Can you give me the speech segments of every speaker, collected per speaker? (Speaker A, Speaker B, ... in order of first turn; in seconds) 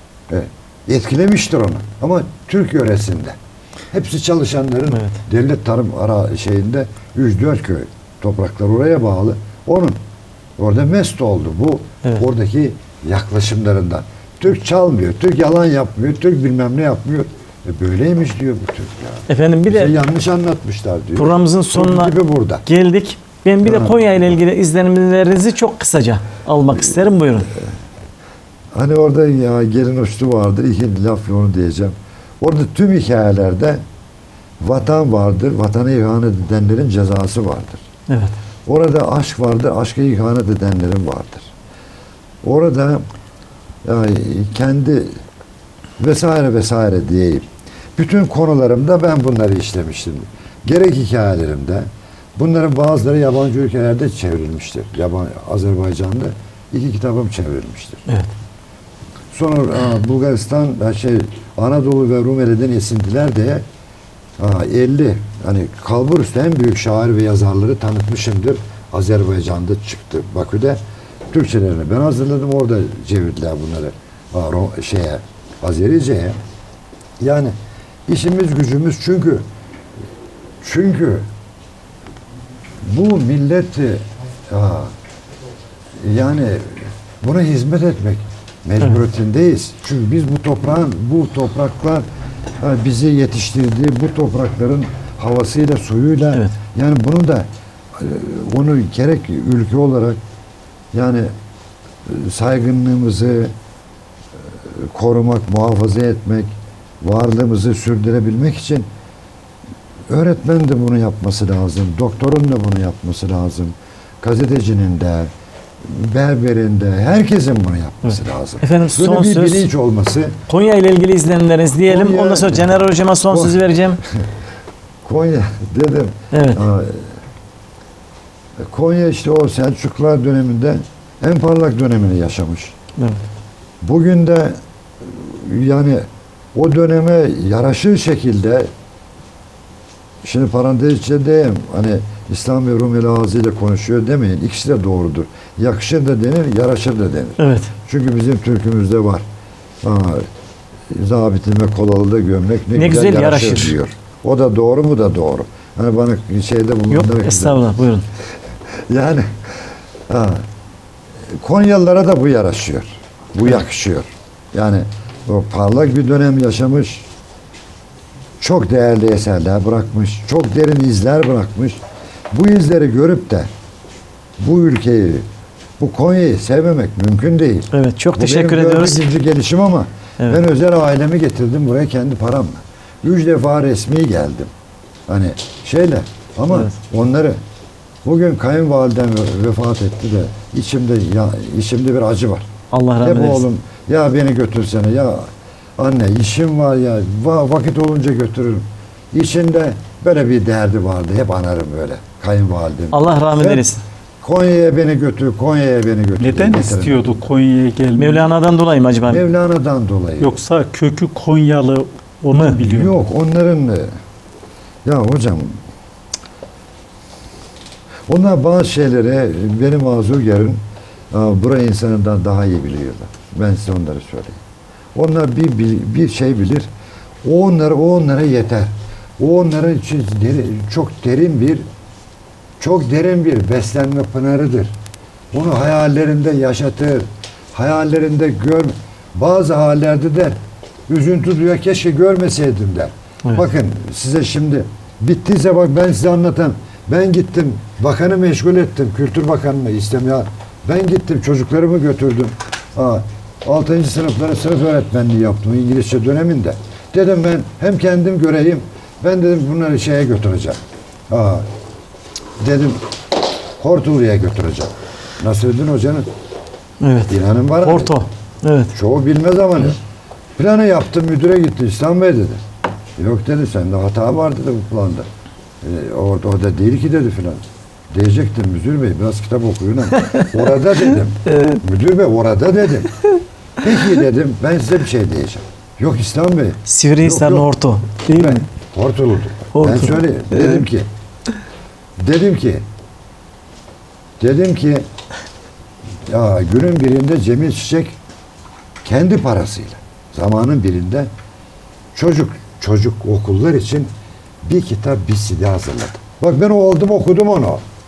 Speaker A: 0.3-3.4, 3.9-10.0, 10.6-22.6, 23.6-24.0, 28.7-33.8, 34.6-37.8, 38.7-41.5, 42.4-43.0, 43.8-45.1, 46.0-58.1, 59.3-63.6, 64.4-76.4, 77.2-77.5, 78.1-79.5, 80.6-81.3, 82.8-84.9, 86.0-92.0, 92.6-100.2, 100.9-101.3, 102.1-103.5, 104.4-108.9, 110.1-115.3, 115.8-120.4, 121.9-122.7, 123.3-124.2, 125.0-127.1, 128.6-132.8, 133.8-138.7, 140.2-149.2, 149.8-150.3, 150.9-157.6, 158.7-160.4, 161.3-167.1, 168.4-171.8, 172.3-173.5, 174.4-175.2, 175.8-184.5, 185.1-187.4, 188.1-192.5, 193.0-207.2, 209.1-210.4, 212.6-213.9, 214.8-215.6, 218.1-224.4, 224.9-226.7, 227.2-231.7, 232.6-234.8, 235.3-240.4, 240.9-261.5, 262.4-262.8, 263.6-266.1, 267.1-268.0, 268.7-269.8, 270.4-272.4, 273.0-275.1, 275.6-282.9, 283.6-287.5, 288.1-290.9, 292.0-292.6, 294.2-294.9, 296.1-298.0, 298.8-301.1, 301.9-303.9, 304.4-307.6
Speaker B: 4.9-5.2, 19.3-19.9, 21.2-27.5, 38.1-38.4, 118.1-119.7, 120.5-124.0, 126.3-126.6, 147.4-147.7, 152.7-153.8, 156.9-158.1, 177.7-179.1, 192.7-193.5, 202.9-203.8, 208.0-209.3, 266.8-268.7, 280.1-280.3, 281.3-281.6, 286.7-288.4, 289.5-290.6
Speaker C: 206.2-208.3, 210.2-213.0